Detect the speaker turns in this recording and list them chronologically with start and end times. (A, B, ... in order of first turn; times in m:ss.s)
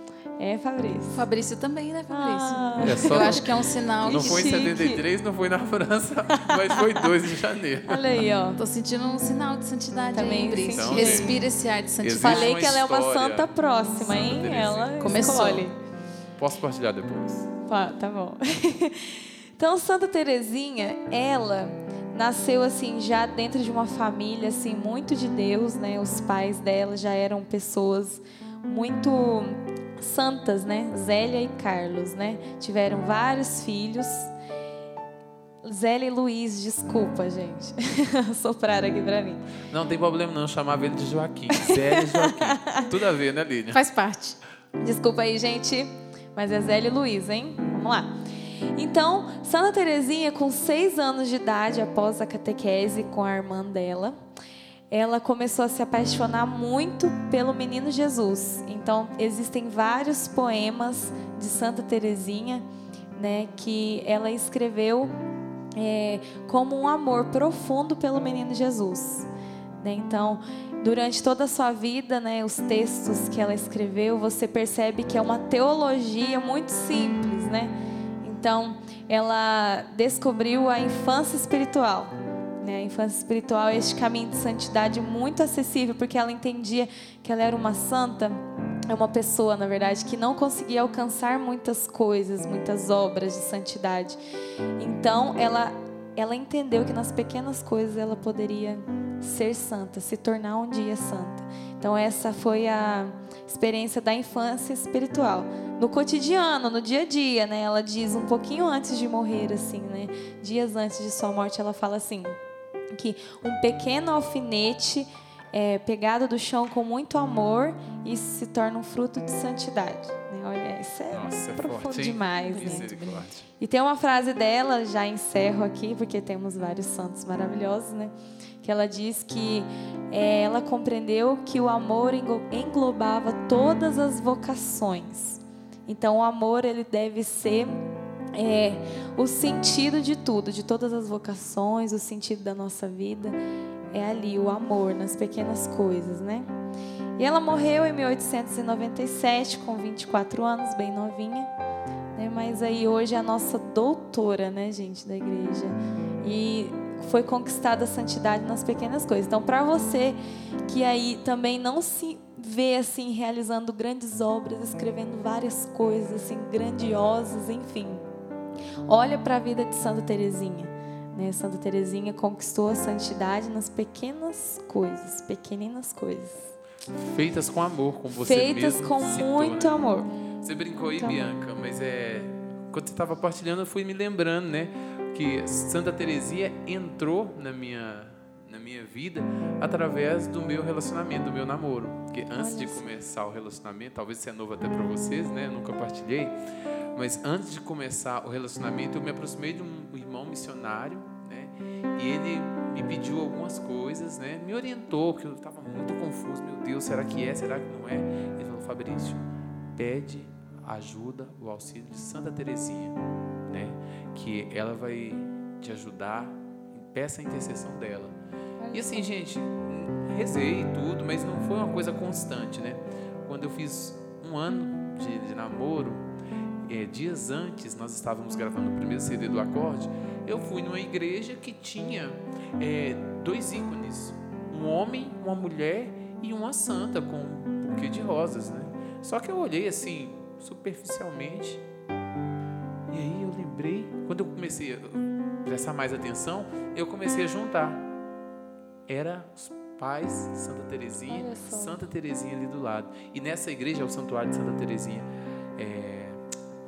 0:00.4-0:01.2 A
0:01.1-0:04.6 B
0:02.1-0:03.4 A
0:02.8-0:03.5 C
0:04.0-0:08.0 C
0:04.0-0:05.0 A
0:06.3-0:07.1 A
0:07.8-0:08.6 A
0:08.6-0:12.8 B
0:10.1-0:11.4 A
0:10.7-0:11.4 C
0:12.0-0:15.1 C
0:12.2-0:15.8 A
0:15.0-0:15.7 B
0:16.4-0:17.5 C
0:17.7-0:34.3 A
0:35.6-0:39.4 A
0:39.7-0:43.8 C
0:41.5-0:42.8 A
0:43.7-0:44.4 B
0:44.8-0:48.1 A
0:48.8-0:54.2 A
0:54.9-1:02.6 A
1:03.2-1:05.1 A
1:05.8-1:09.3 A
1:09.8-1:34.2 A
1:34.8-1:52.4 A
1:52.9-2:02.9 A
2:01.1-2:03.4 C
2:02.4-2:03.2 B
2:03.6-2:17.8 A
2:18.3-2:23.4 A
2:23.9-2:26.5 A
2:27.2-2:31.5 A
2:32.1-2:48.0 A
2:48.9-2:56.5 A
2:56.9-2:59.8 C
2:58.1-3:00.1 A
3:00.4-3:16.4 C
3:12.3-3:12.8 A
3:16.9-3:38.1 C
3:38.6-3:39.2 A
3:38.7-3:46.0 C
3:46.6-4:01.6 C
4:02.9-4:07.9 C
4:08.9-4:16.2 C
4:11.1-4:11.9 A